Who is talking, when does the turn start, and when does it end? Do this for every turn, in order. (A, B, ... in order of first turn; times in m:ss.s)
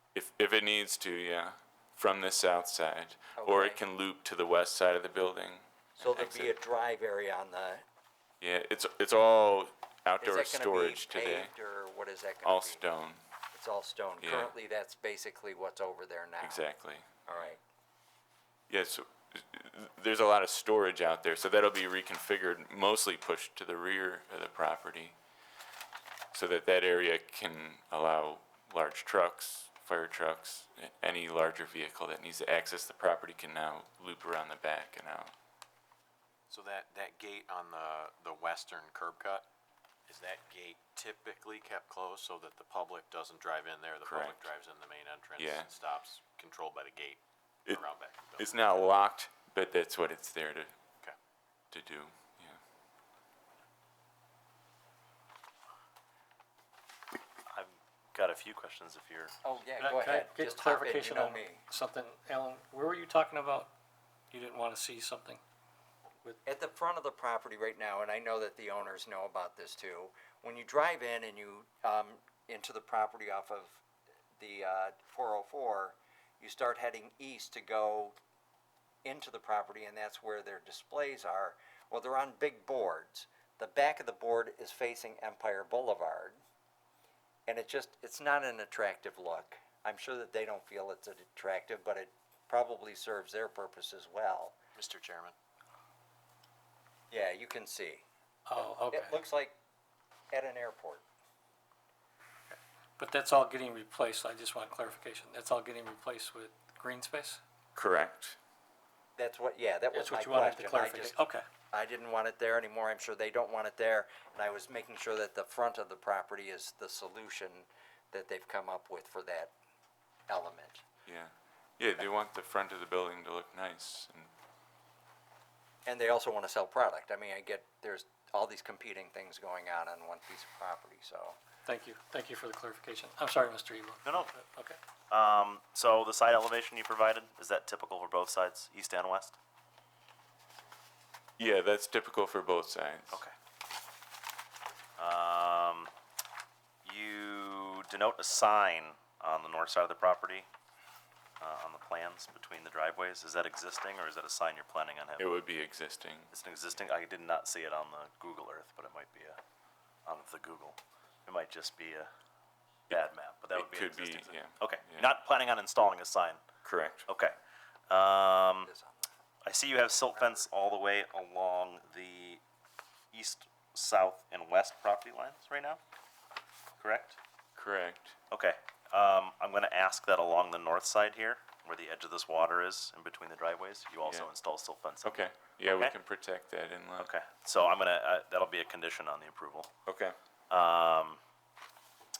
0:00.2-0:06.6 A
0:03.4-0:03.8 B
0:06.0-0:07.8 B
0:08.4-0:11.5 A
0:10.2-0:12.8 B
0:12.4-0:13.2 A
0:13.5-0:16.6 B
0:14.2-0:14.5 A
0:16.4-0:17.1 A
0:17.3-0:17.6 B
0:18.7-0:25.2 A
0:26.3-0:35.3 A
0:36.5-0:39.5 C
0:40.1-0:48.8 C
0:44.0-0:44.4 A
0:45.4-0:45.7 A
0:48.4-0:50.7 A
0:51.7-0:52.6 A
0:57.5-0:59.4 D
0:59.4-1:01.6 B
0:59.8-1:03.7 E
1:04.3-1:05.4 E
1:06.4-1:13.8 B
1:14.4-1:18.2 B
1:19.0-1:26.4 B
1:27.5-1:34.6 B
1:34.8-1:35.4 C
1:37.1-1:38.0 B
1:38.5-1:39.2 E
1:38.6-1:39.6 B
1:40.3-1:41.0 B
1:42.5-1:47.4 E
1:47.8-1:48.4 A
1:49.2-1:51.2 B
1:49.9-1:51.5 E
1:51.7-1:59.5 B
2:00.3-2:00.8 B
2:01.1-2:04.3 A
2:05.9-2:11.4 B
2:11.6-2:14.8 E
2:14.0-2:14.3 D
2:15.1-2:19.4 D
2:21.4-2:23.2 A
2:25.0-2:25.9 D
2:26.8-2:30.5 D
2:31.4-2:35.4 D
2:35.2-2:36.3 A
2:36.3-2:39.4 D
2:40.1-2:42.1 D
2:42.9-2:46.4 D
2:42.9-2:45.1 A
2:46.6-2:47.1 A
2:47.1-2:47.4 D
2:47.9-2:48.7 D
2:48.6-2:49.1 B
2:49.4-2:52.4 D
2:53.1-2:55.8 D
2:56.8-2:57.2 D
2:57.6-2:58.2 A
2:58.3-3:06.0 D
3:04.0-3:04.3 A
3:05.0-3:07.1 A
3:07.0-3:09.7 D
3:09.9-3:10.2 A
3:10.5-3:11.2 D